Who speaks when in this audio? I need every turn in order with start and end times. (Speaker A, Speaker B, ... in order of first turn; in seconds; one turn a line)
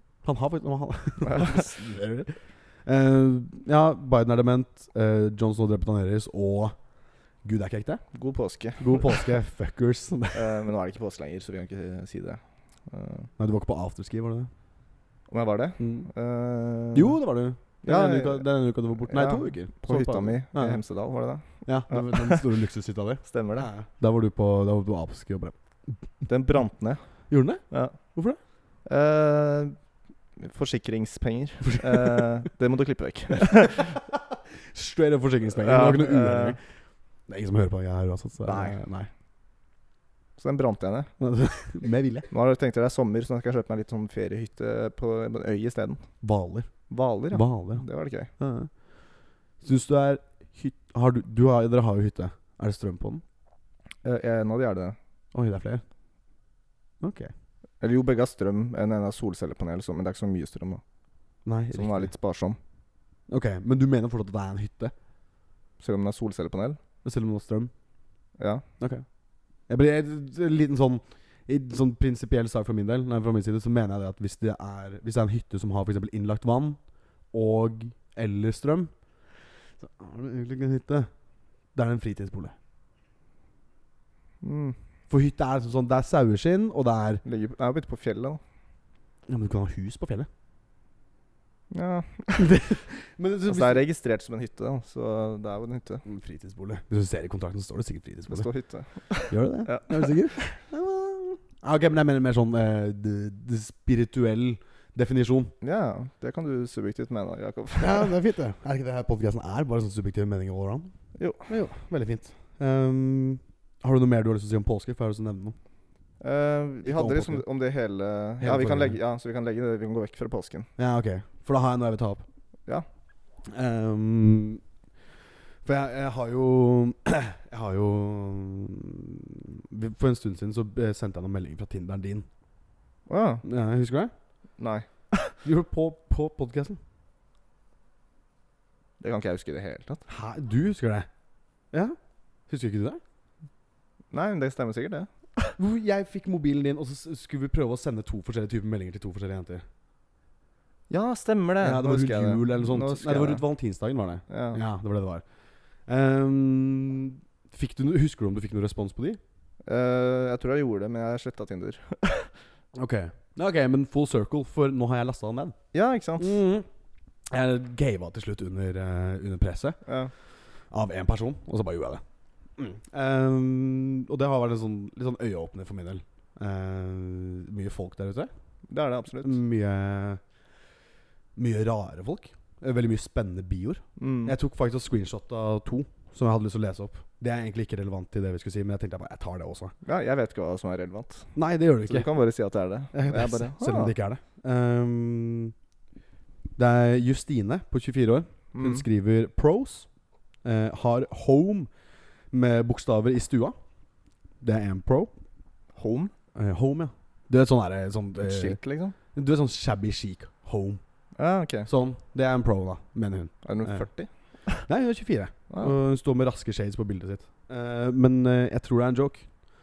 Speaker A: 0.2-6.8
Speaker B: 1.2-1.7
Speaker A: 7.4-8.0
Speaker B: 8.1-9.3
Speaker A: 8.8-10.5
Speaker B: 10.3-13.3
Speaker A: 13.4-14.5
Speaker B: 15.3-17.1
Speaker A: 15.8-16.1
Speaker A: 16.9-20.8
Speaker B: 17.8-18.5
Speaker B: 19.1-22.4
Speaker A: 21.6-25.5
Speaker B: 23.2-23.7
Speaker B: 26.3-27.0
Speaker A: 27.3-28.4
Speaker B: 27.7-28.0
Speaker B: 28.8-29.8
Speaker B: 30.4-34.0
Speaker A: 31.7-32.2
Speaker A: 34.7-36.6
Speaker B: 35.5-36.6
Speaker A: 37.3-39.1
Speaker B: 38.4-38.8
Speaker B: 40.4-41.1
Speaker A: 41.2-42.3
Speaker B: 42.3-46.1
Speaker A: 46.2-46.7
Speaker B: 46.9-48.3
Speaker A: 47.3-48.7
Speaker A: 49.6-53.2
Speaker B: 54.0-55.0
Speaker A: 55.3-55.8
Speaker A: 57.0-57.3
Speaker B: 57.8-60.8
Speaker A: 61.4-62.1
Speaker B: 61.7-62.6
Speaker A: 63.3-64.9
Speaker B: 65.8-66.8
Speaker A: 67.0-67.7
Speaker B: 68.4-68.6
Speaker A: 68.8-69.1
Speaker A: 69.7-76.8
Speaker A: 77.3-78.9
Speaker A: 79.8-81.1
Speaker A: 81.7-82.5
Speaker B: 84.4-84.8
Speaker A: 85.1-87.2
Speaker B: 87.2-88.4
Speaker A: 89.3-90.3
Speaker B: 91.7-92.5
Speaker A: 92.4-93.8
Speaker B: 93.5-96.0
Speaker A: 96.0-98.5
Speaker B: 98.3-100.1
Speaker A: 99.3-105.5
Speaker B: 105.6-108.1
Speaker A: 107.8-115.5
Speaker B: 111.2-111.5
Speaker B: 116.2-120.7
Speaker A: 116.8-117.4
Speaker A: 118.4-119.0
Speaker A: 120.8-122.2
Speaker A: 123.5-124.6
Speaker A: 125.6-132.3
Speaker B: 133.1-133.4
Speaker A: 133.4-134.1
Speaker B: 134.6-135.3
Speaker A: 135.4-136.8
Speaker B: 139.0-140.0
Speaker A: 140.1-141.1
Speaker A: 141.7-142.0
Speaker A: 142.5-143.0
Speaker B: 144.1-145.5
Speaker A: 145.6-149.6
Speaker B: 150.9-153.4
Speaker A: 151.6-155.3
Speaker B: 154.3-154.6
Speaker A: 155.8-159.2
Speaker B: 159.6-162.3
Speaker A: 162.7-165.6
Speaker B: 165.7-166.3
Speaker A: 166.2-166.7
Speaker A: 167.3-169.8
Speaker B: 169.8-170.1
Speaker A: 170.7-172.0
Speaker A: 172.6-178.3
Speaker B: 178.7-179.4
Speaker A: 179.2-180.2
Speaker A: 181.3-189.7
Speaker B: 184.0-184.3
Speaker B: 189.8-193.9
Speaker A: 191.3-192.1
Speaker A: 192.9-195.5
Speaker A: 196.6-199.9
Speaker B: 198.5-198.8
Speaker A: 200.4-201.7
Speaker A: 202.3-203.6
Speaker A: 204.4-205.1
Speaker B: 205.7-206.1
Speaker A: 206.3-208.6
Speaker B: 208.2-208.9
Speaker A: 209.1-210.8
Speaker B: 211.2-211.7
Speaker A: 211.7-213.9
Speaker B: 213.4-214.6
Speaker A: 214.6-219.5